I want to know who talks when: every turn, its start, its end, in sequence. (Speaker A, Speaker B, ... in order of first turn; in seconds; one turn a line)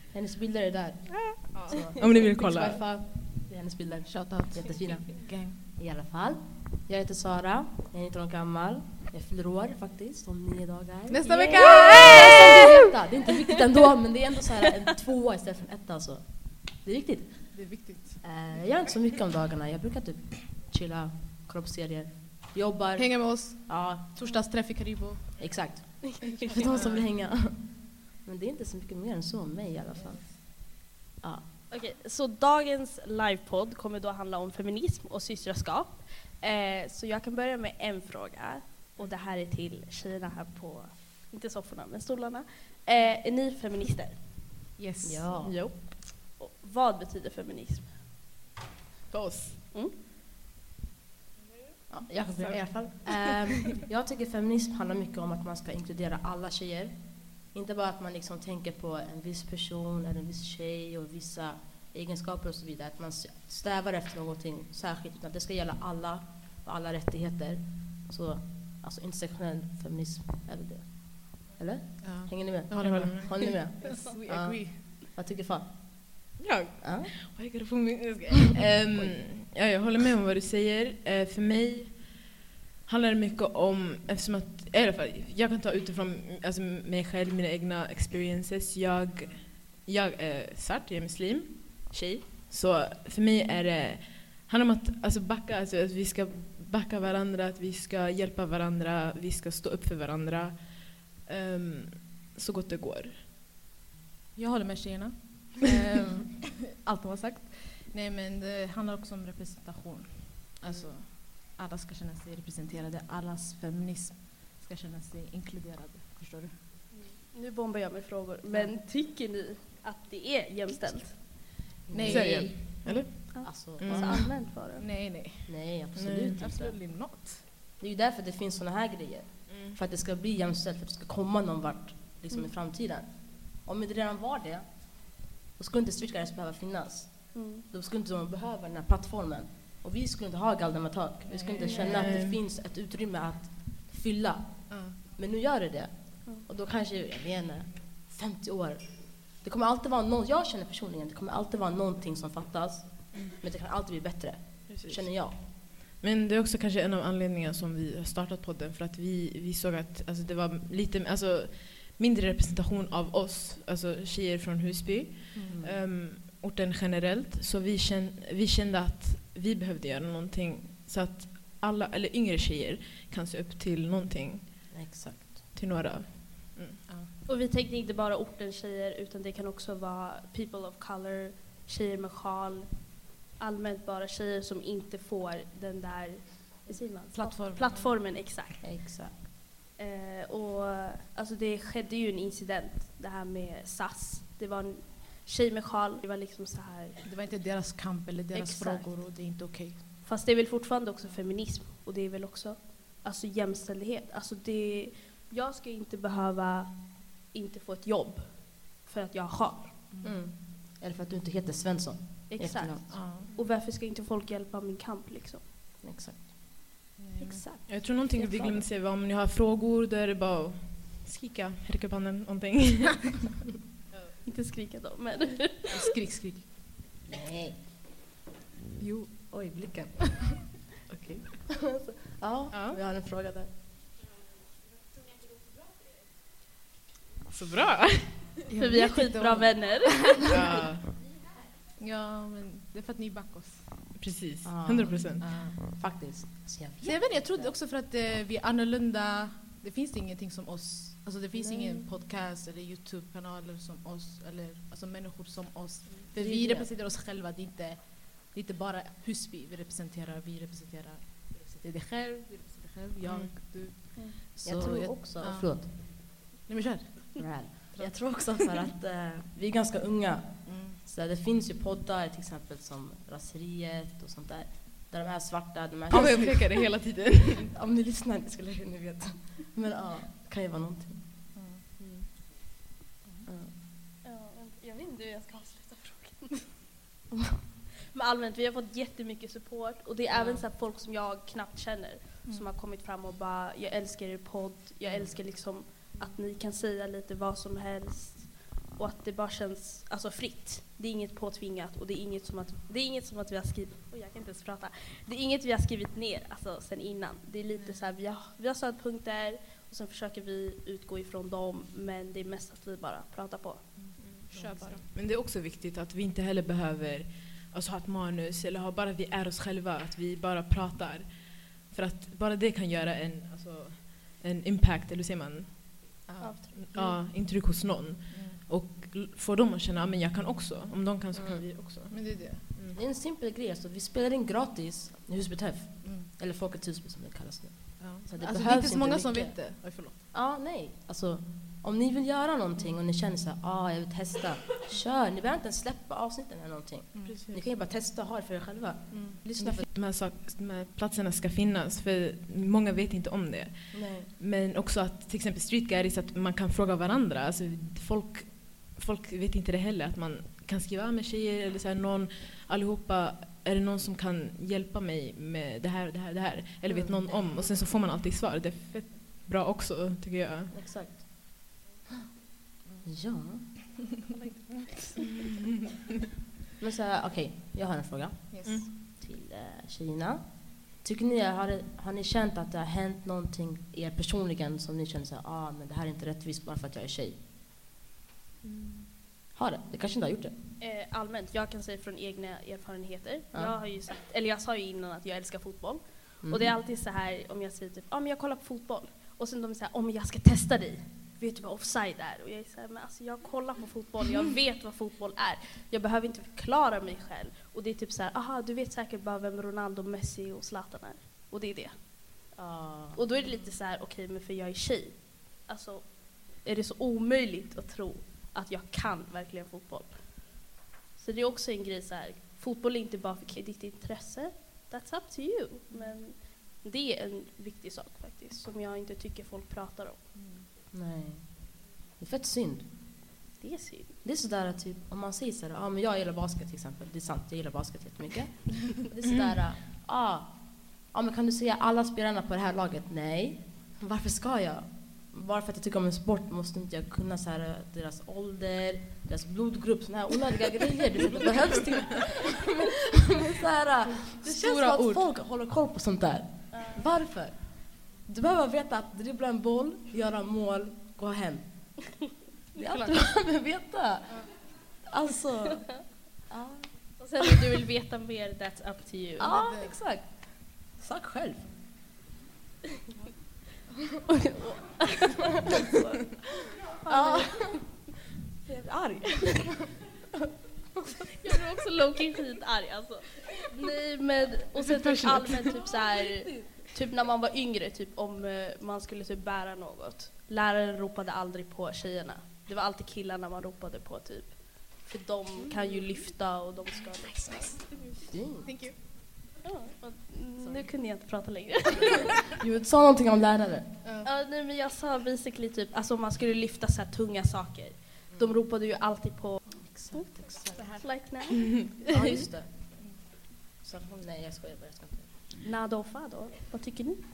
Speaker A: 0.1-24.3
Speaker B: 1.4-2.8
Speaker C: 4.1-5.6
Speaker C: 11.1-12.6
Speaker D: 11.3-12.4
Speaker C: 17.5-18.2
Speaker C: 23.0-26.0
Speaker A: 25.4-31.5
Speaker C: 26.7-27.1
Speaker C: 30.0-30.3
Speaker D: 31.7-44.3
Speaker C: 44.8-45.3
Speaker A: 45.0-45.6
Speaker B: 45.4-45.8
Speaker D: 46.0-48.0
Speaker B: 49.1-49.6
Speaker A: 51.9-77.1
Speaker C: 52.3-53.3
Speaker C: 72.0-74.8
Speaker B: 72.8-73.6
Speaker B: 76.4-82.2
Speaker A: 78.9-79.2
Speaker B: 82.9-103.2
Speaker A: 91.9-92.2
Speaker C: 104.4-116.5
Speaker D: 116.9-121.5
Speaker A: 118.5-118.7
Speaker A: 121.9-124.3
Speaker C: 121.9-122.6
Speaker B: 122.1-124.1
Speaker D: 122.8-124.9
Speaker C: 123.9-125.7
Speaker A: 125.5-126.8
Speaker B: 126.0-126.4
Speaker C: 126.3-127.5
Speaker A: 127.8-155.4
Speaker B: 129.5-129.8
Speaker D: 137.3-137.7
Speaker C: 141.3-142.2
Speaker B: 141.8-142.4
Speaker C: 144.7-145.0
Speaker B: 154.7-174.9
Speaker C: 165.3-165.6
Speaker A: 165.4-165.8
Speaker A: 174.7-175.4
Speaker B: 175.5-176.8
Speaker D: 177.3-188.6
Speaker C: 187.1-188.0
Speaker A: 188.6-189.2
Speaker D: 189.8-197.1
Speaker C: 197.0-199.8
Speaker D: 198.3-199.2
Speaker D: 200.0-209.9
Speaker C: 209.9-210.2
Speaker A: 210.0-212.9
Speaker D: 212.3-215.4
Speaker C: 212.9-213.3
Speaker A: 215.8-216.2
Speaker C: 217.0-217.4
Speaker D: 217.2-218.6
Speaker B: 217.7-223.3
Speaker D: 224.2-225.9
Speaker C: 225.7-226.5
Speaker A: 227.1-227.6
Speaker C: 228.8-230.0
Speaker A: 229.2-230.3
Speaker B: 230.9-231.5
Speaker A: 231.6-233.5
Speaker B: 232.5-232.8
Speaker B: 237.3-238.3
Speaker C: 238.5-240.3
Speaker D: 238.6-240.4
Speaker B: 240.3-240.9
Speaker C: 241.8-243.9
Speaker B: 244.0-245.2
Speaker A: 244.4-247.5
Speaker C: 245.2-245.6
Speaker C: 246.8-265.9
Speaker A: 251.4-251.8
Speaker A: 256.2-256.7
Speaker B: 263.1-263.3
Speaker A: 264.4-265.7
Speaker C: 266.5-268.2
Speaker A: 267.2-276.6
Speaker C: 270.5-270.8
Speaker B: 275.9-277.5
Speaker C: 275.9-276.3
Speaker A: 277.5-282.1
Speaker C: 281.4-281.6
Speaker A: 283.3-283.6
Speaker D: 284.0-286.6
Speaker D: 287.9-314.6
Speaker A: 290.1-290.4
Speaker C: 307.5-307.9
Speaker C: 313.9-314.9
Speaker B: 314.0-326.0
Speaker C: 326.1-327.1
Speaker D: 326.2-326.6
Speaker B: 326.6-332.8
Speaker C: 328.1-328.4
Speaker A: 331.1-331.4
Speaker C: 331.9-332.4
Speaker A: 332.7-349.7
Speaker C: 335.8-336.1
Speaker C: 337.8-340.0
Speaker C: 346.9-347.2
Speaker B: 347.1-347.4
Speaker C: 348.9-349.2
Speaker B: 349.4-370.6
Speaker A: 353.7-354.1
Speaker A: 366.7-367.2
Speaker A: 370.5-371.5
Speaker A: 372.9-373.5
Speaker D: 374.1-375.0
Speaker A: 376.6-387.2
Speaker C: 378.3-378.6
Speaker B: 388.4-388.9
Speaker A: 389.3-390.3
Speaker D: 390.6-411.8
Speaker A: 396.2-396.6
Speaker A: 412.3-413.0
Speaker D: 412.9-430.1
Speaker C: 430.1-430.4
Speaker A: 430.7-432.7
Speaker D: 433.4-434.0
Speaker A: 434.0-461.9
Speaker C: 454.2-455.1
Speaker D: 456.5-456.8
Speaker A: 462.6-467.0
Speaker C: 462.6-462.9
Speaker D: 467.0-469.4
Speaker A: 469.2-471.5
Speaker C: 469.4-469.8
Speaker D: 474.2-476.2
Speaker A: 476.9-477.9
Speaker D: 476.9-477.7
Speaker A: 478.4-479.6
Speaker D: 481.2-498.1
Speaker B: 484.6-485.4
Speaker A: 486.2-486.5
Speaker A: 498.1-498.5
Speaker C: 498.4-498.8
Speaker D: 499.4-502.2
Speaker A: 500.4-500.7
Speaker A: 502.4-503.8
Speaker C: 503.8-504.1
Speaker D: 504.0-512.2
Speaker A: 508.1-508.4
Speaker A: 509.6-510.8
Speaker C: 510.5-510.9
Speaker A: 511.9-513.1
Speaker A: 513.6-515.3
Speaker D: 515.4-517.0